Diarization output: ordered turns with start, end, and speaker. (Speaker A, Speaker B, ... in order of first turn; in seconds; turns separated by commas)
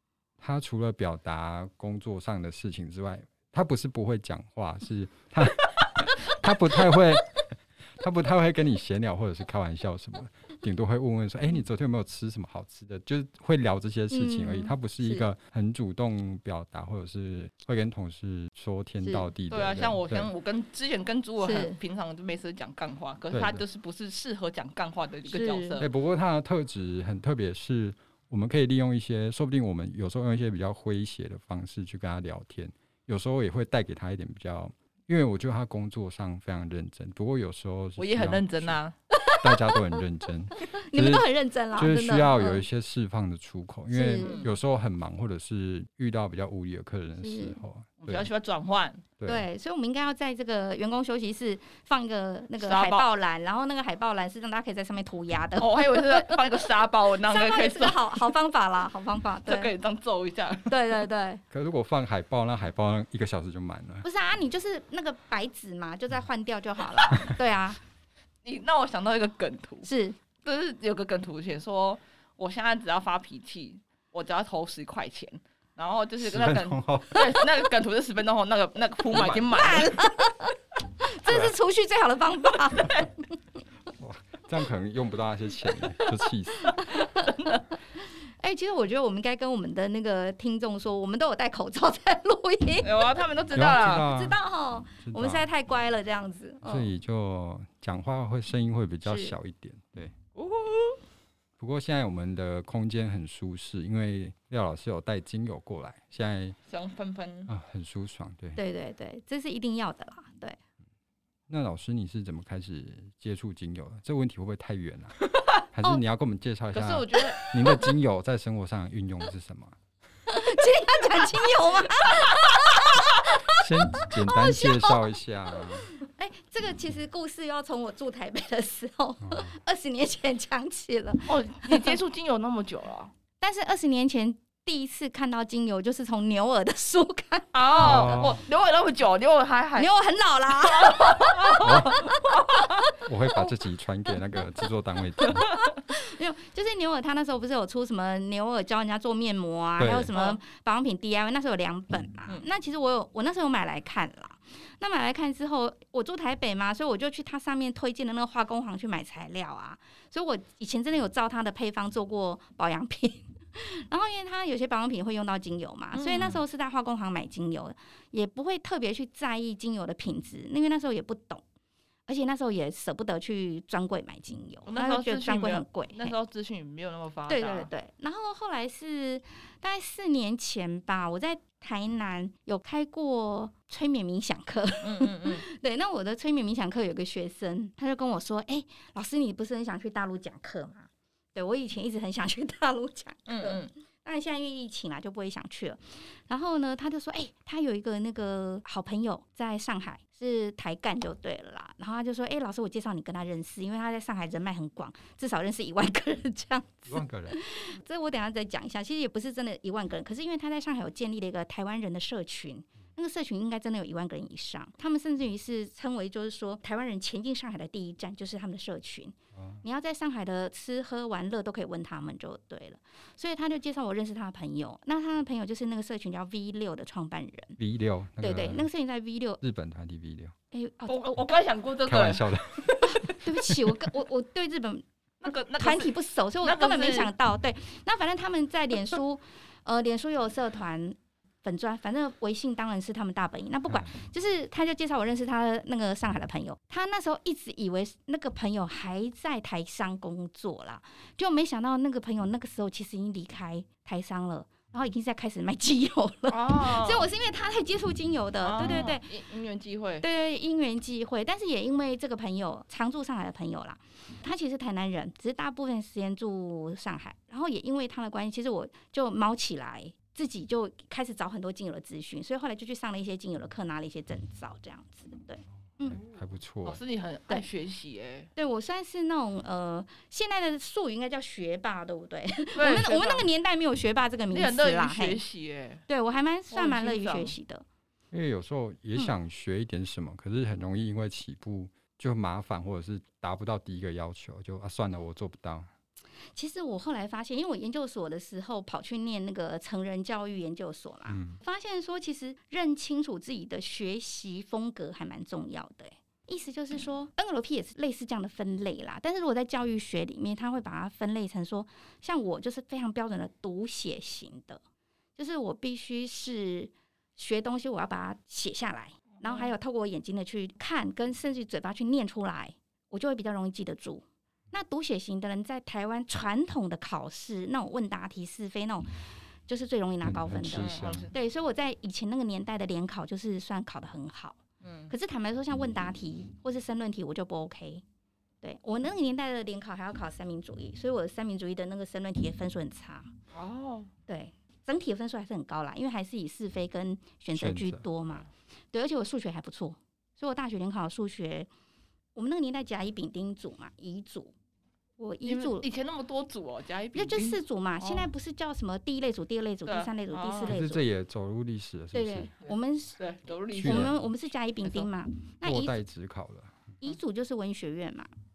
Speaker A: 0.4-20.3, Speaker B: 14.1-15.2, Speaker B: 19.0-19.3, Speaker C: 19.5-25.9, Speaker B: 21.4-21.8, Speaker A: 23.3-23.6, Speaker B: 25.3-25.8, Speaker A: 25.8-38.8, Speaker C: 38.0-38.9, Speaker B: 39.1-40.0, Speaker A: 39.4-48.3, Speaker B: 40.5-42.6, Speaker B: 43.9-44.4, Speaker C: 44.2-44.5, Speaker B: 47.2-47.6, Speaker C: 48.0-49.1, Speaker A: 49.2-49.4, Speaker B: 49.2-56.6, Speaker C: 52.6-53.1, Speaker C: 55.6-58.5, Speaker B: 57.2-59.7, Speaker C: 59.4-61.0, Speaker B: 60.7-61.4, Speaker A: 61.5-64.0, Speaker B: 64.0-67.8, Speaker C: 68.4-69.9, Speaker B: 69.8-70.2, Speaker C: 70.4-80.0, Speaker A: 76.2-77.4, Speaker A: 79.1-79.7, Speaker B: 79.5-83.1, Speaker A: 81.3-81.5, Speaker A: 84.0-86.8, Speaker B: 86.7-87.4, Speaker B: 88.4-93.1, Speaker C: 92.8-94.1, Speaker A: 93.5-94.4, Speaker B: 94.0-96.9, Speaker A: 94.9-95.5, Speaker A: 96.6-100.1, Speaker B: 99.0-99.3, Speaker C: 100.3-101.0, Speaker A: 101.6-106.6, Speaker C: 106.7-107.5, Speaker A: 107.5-108.6, Speaker B: 108.5-110.6, Speaker A: 111.5-115.2, Speaker A: 115.7-119.7, Speaker C: 116.7-117.6, Speaker B: 120.3-125.0, Speaker A: 123.5-125.9, Speaker B: 125.6-131.9, Speaker A: 129.2-129.5, Speaker C: 131.3-133.1, Speaker B: 133.4-138.3, Speaker C: 137.5-139.9, Speaker A: 137.8-138.4, Speaker B: 139.8-142.6, Speaker C: 140.5-142.9, Speaker A: 141.6-142.1, Speaker A: 143.0-145.5, Speaker B: 145.2-171.4, Speaker A: 149.8-150.1, Speaker C: 150.1-150.4, Speaker C: 165.9-166.4, Speaker B: 172.1-176.1, Speaker C: 174.7-177.7, Speaker B: 177.3-227.6, Speaker C: 184.8-185.4, Speaker C: 193.3-193.7, Speaker A: 206.9-207.4, Speaker A: 219.3-219.6, Speaker A: 227.6-228.7, Speaker B: 228.2-229.4, Speaker A: 229.4-230.3, Speaker B: 230.5-231.3, Speaker C: 230.9-233.2, Speaker A: 231.8-233.1, Speaker B: 232.8-234.8, Speaker C: 235.2-237.1, Speaker B: 235.6-259.1, Speaker C: 256.3-257.1, Speaker C: 258.4-260.0, Speaker B: 260.0-276.0, Speaker A: 275.8-276.8, Speaker C: 276.6-278.3, Speaker B: 278.4-285.2, Speaker C: 282.6-283.3, Speaker C: 284.3-285.8, Speaker B: 285.9-287.6, Speaker C: 286.5-287.3, Speaker A: 288.1-295.7, Speaker B: 296.3-314.6, Speaker A: 301.1-301.4, Speaker B: 315.2-328.9, Speaker C: 319.2-319.5, Speaker B: 329.5-337.8, Speaker A: 330.0-331.1, Speaker C: 330.4-331.1, Speaker C: 334.6-334.9, Speaker B: 338.4-343.1, Speaker C: 343.3-343.9, Speaker B: 344.1-351.5, Speaker A: 347.3-347.8, Speaker B: 352.1-354.3, Speaker B: 355.0-355.6, Speaker C: 355.2-358.1, Speaker B: 356.9-360.8, Speaker C: 359.6-360.6, Speaker A: 360.4-362.3, Speaker B: 361.9-363.0, Speaker C: 362.4-363.9, Speaker B: 363.5-365.8, Speaker A: 363.6-363.9, Speaker C: 364.6-364.9, Speaker A: 365.4-366.6, Speaker B: 366.8-368.1